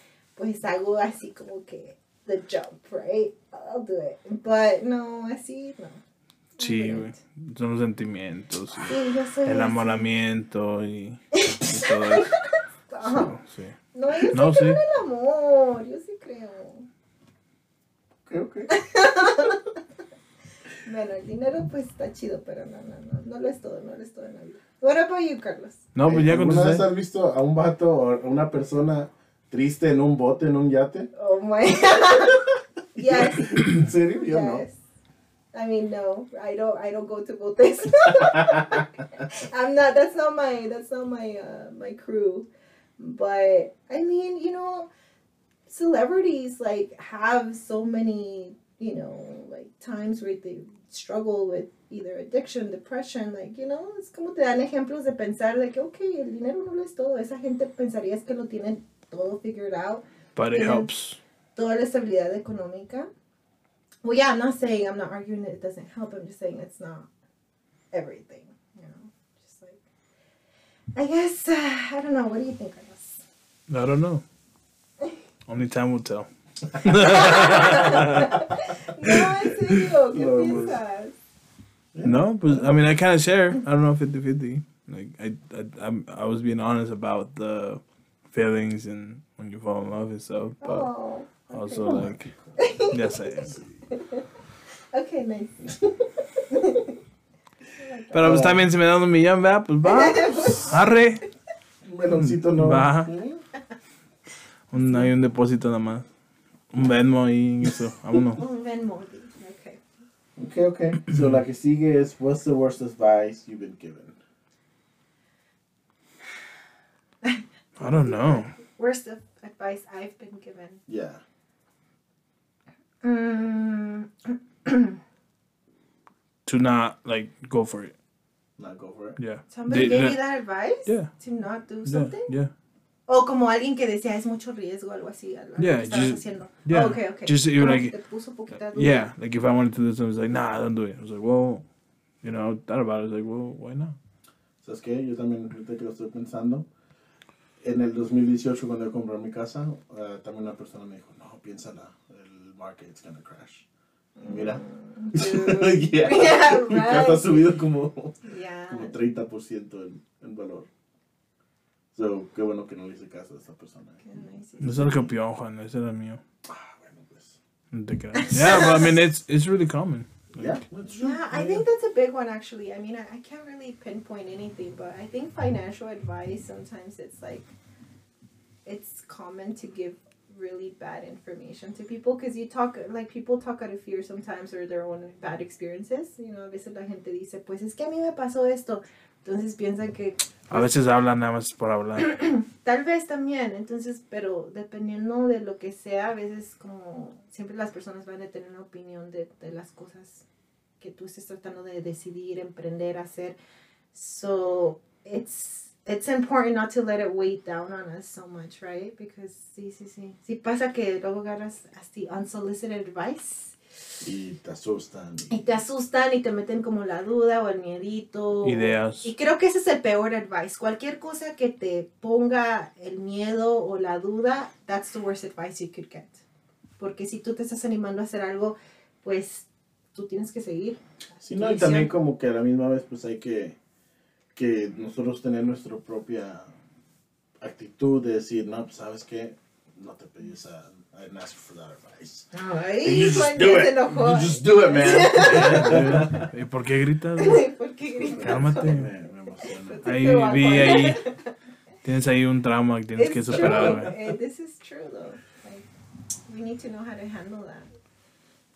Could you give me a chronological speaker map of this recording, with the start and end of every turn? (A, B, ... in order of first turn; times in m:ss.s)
0:00.4-0:06.0 A
0:06.6-0:07.1 A
0:06.6-0:12.3 B
0:08.9-0:10.1 A
0:11.3-0:13.4 A
0:13.0-0:14.8 B
0:13.9-0:16.9 A
0:18.3-0:18.7 C
0:18.7-0:19.7 A
0:20.8-0:25.8 A
0:26.0-0:26.9 B
0:26.1-0:31.1 C
0:31.2-0:34.8 A
0:32.1-0:32.4 C
0:33.0-0:34.6 C
0:35.5-0:44.9 A
0:38.2-0:38.8 C
0:45.7-1:00.9 A
1:00.4-1:01.2 B
1:01.6-1:03.1 A
1:04.0-1:07.1 A
1:07.9-1:09.8 A
1:11.0-1:13.2 A
1:13.7-1:14.2 B
1:15.5-1:18.4 B
1:16.9-1:21.2 A
1:20.1-1:20.8 C
1:21.9-1:22.8 C
1:22.0-1:27.8 B
1:28.3-1:30.9 B
1:30.6-1:32.0 A
1:31.5-1:32.3 B
1:31.8-1:32.5 C
1:32.6-1:34.3 A
1:32.9-1:33.6 B
1:33.4-1:33.7 C
1:34.9-1:37.0 A
1:37.8-1:38.4 A
1:38.1-1:41.2 B
1:38.2-1:38.6 C
1:39.8-1:40.8 A
1:41.8-1:43.4 C
1:42.1-1:43.1 B
1:44.7-1:46.1 B
1:44.8-1:45.1 C
1:46.7-1:48.4 B
1:48.4-1:49.8 A
1:50.4-1:54.2 C
1:57.2-2:00.8 A
1:57.8-1:58.5 B
2:00.9-2:01.2 C
2:03.0-2:05.0 A
2:06.5-2:07.9 B
2:08.6-2:09.2 C
2:09.2-2:10.2 B
2:09.5-2:12.3 A
2:10.9-2:11.1 B
2:11.9-2:12.5 B
2:13.1-2:19.1 A
2:15.6-2:18.0 B
2:18.6-2:21.6 B
2:22.2-2:24.0 B
2:24.6-2:26.7 C
2:27.6-2:33.6 C
2:34.2-2:37.5 A
2:34.2-2:34.6 C
2:35.1-2:38.2 C
2:38.2-2:39.0 A
2:38.7-2:40.7 C
2:41.9-2:44.2 C
2:44.0-2:45.1 A
2:44.6-2:46.2 B
2:46.4-2:47.4 C
2:47.7-2:50.6 B
2:48.2-2:49.0 A
2:50.4-2:51.6 C
2:50.9-2:57.5 A
2:58.7-3:10.7 A
3:10.5-3:12.2 B
3:12.0-3:20.2 A
3:20.8-3:23.4 A
3:23.9-3:33.6 A
3:34.0-3:35.4 C
3:35.3-3:46.2 A
3:38.4-3:39.1 B
3:46.8-3:51.9 A
3:51.2-3:53.6 C
3:54.4-3:56.5 C
3:57.4-4:02.3 C
4:02.3-4:06.2 A
4:02.8-4:06.3 C
4:05.2-4:07.5 B
4:07.2-4:08.9 A
4:08.0-4:10.0 C
4:08.1-4:08.9 B
4:09.4-4:11.3 A
4:09.8-4:11.0 B
4:11.8-4:14.0 B
4:13.0-4:15.7 A
4:13.3-4:13.9 C
4:16.3-4:17.7 A